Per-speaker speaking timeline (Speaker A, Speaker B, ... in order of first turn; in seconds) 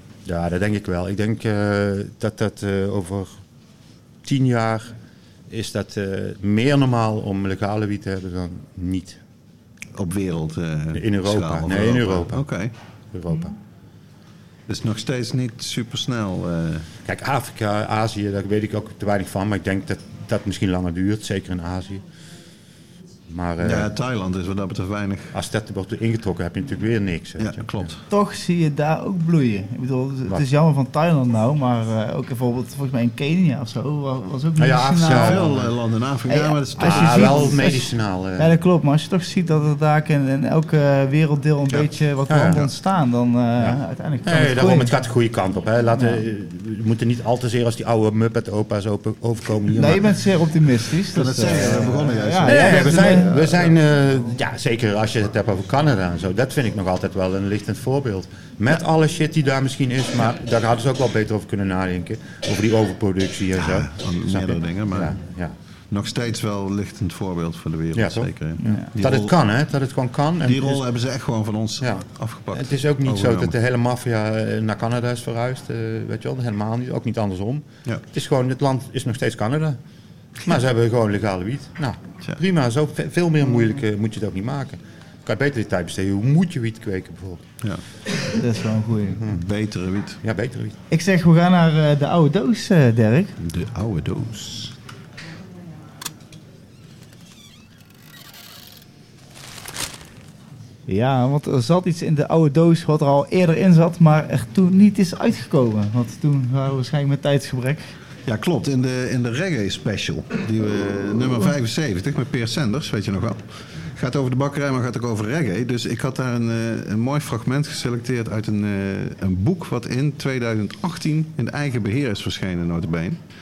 Speaker A: 0.2-3.4, 4.2-4.9, 5.5-9.2, 10.9-12.4, 13.1-13.5, 17.0-22.0, 23.3-23.9, 25.3-27.9, 34.6-35.6, 36.8-38.5, 42.3-42.7, 43.6-50.2, 52.5-65.5, 67.9-70.8, 71.8-79.8, 80.4-87.4, 90.2-90.8
Speaker B: 9.9-12.7, 14.7-16.9, 23.6-25.3, 27.4-28.0, 35.2-37.7, 51.1-53.7, 63.5-65.2, 65.9-69.3, 70.4-73.5, 89.2-90.2, 93.4-94.7, 108.2-123.2
Speaker C: 28.1-35.5, 36.3-37.8, 38.4-44.9, 46.0-46.2, 49.7-53.3, 68.6-68.9, 88.3-89.2, 90.9-93.3, 100.9-107.9